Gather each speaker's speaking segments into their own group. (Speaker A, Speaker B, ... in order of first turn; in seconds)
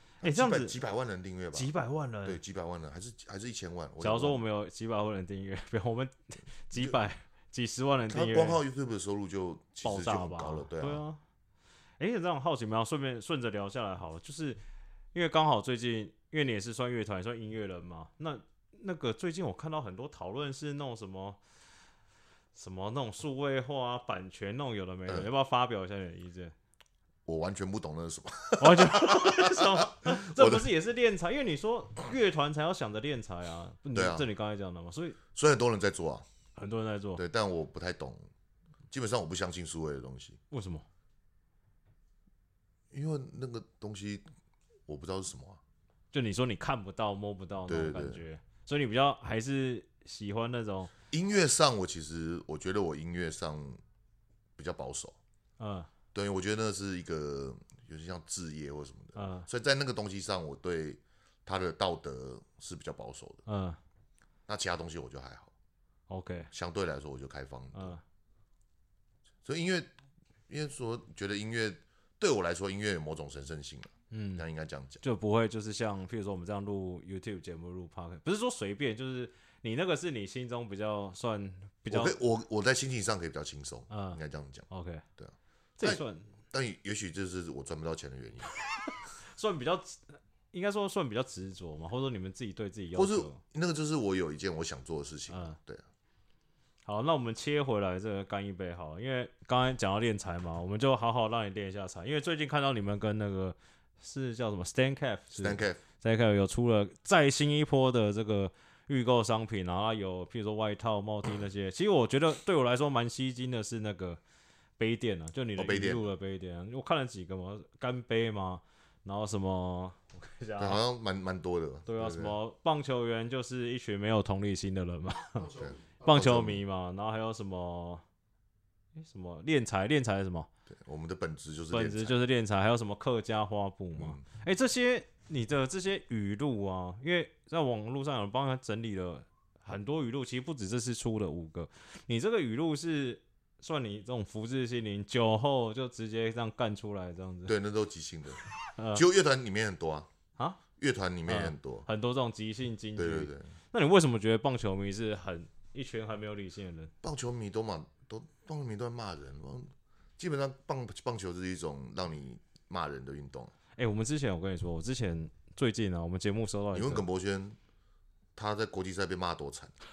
Speaker A: 0.2-1.7, 2.2-4.4, 8.1-11.0, 27.2-30.7, 33.9-34.3, 35.3-36.2, 37.2-38.3, 38.9-40.4, 42.9-44.2, 44.9-45.6, 47.7-48.2, 51.1-53.8, 54.6-55.2, 56.1-63.4, 64.5-65.5, 66.5-68.0, 69.4-69.9, 70.5-75.0, 81.9-84.7, 85.2-88.5, 92.9-95.8, 105.3-105.8, 115.6-116.0, 120.6-122.4, 125.5-126.6, 130.7-132.2, 134.0-134.2, 147.5-148.4, 148.9-150.1, 150.8-151.9, 152.9-153.5, 157.0-163.5, 166.7-167.6, 168.3-169.7
Speaker B: 0.2-0.8, 1.5-2.4, 4.0-8.6, 9.8-11.2, 12.0-14.6, 15.1-21.4, 22.5-26.5, 28.6-35.2, 36.5-37.2, 40.5-40.9, 46.1-50.9, 55.6-55.9, 59.1-59.5, 63.5-63.8, 66.1-66.5, 67.7-68.0, 74.1-74.4, 75.0-82.2, 83.9-85.0, 85.8-86.3, 88.9-93.4, 95.3-95.5, 96.8-114.2, 114.8-120.8, 121.8-128.0, 128.9-130.5, 131.7-147.5, 148.7-149.0, 151.3-156.9, 163.8-167.0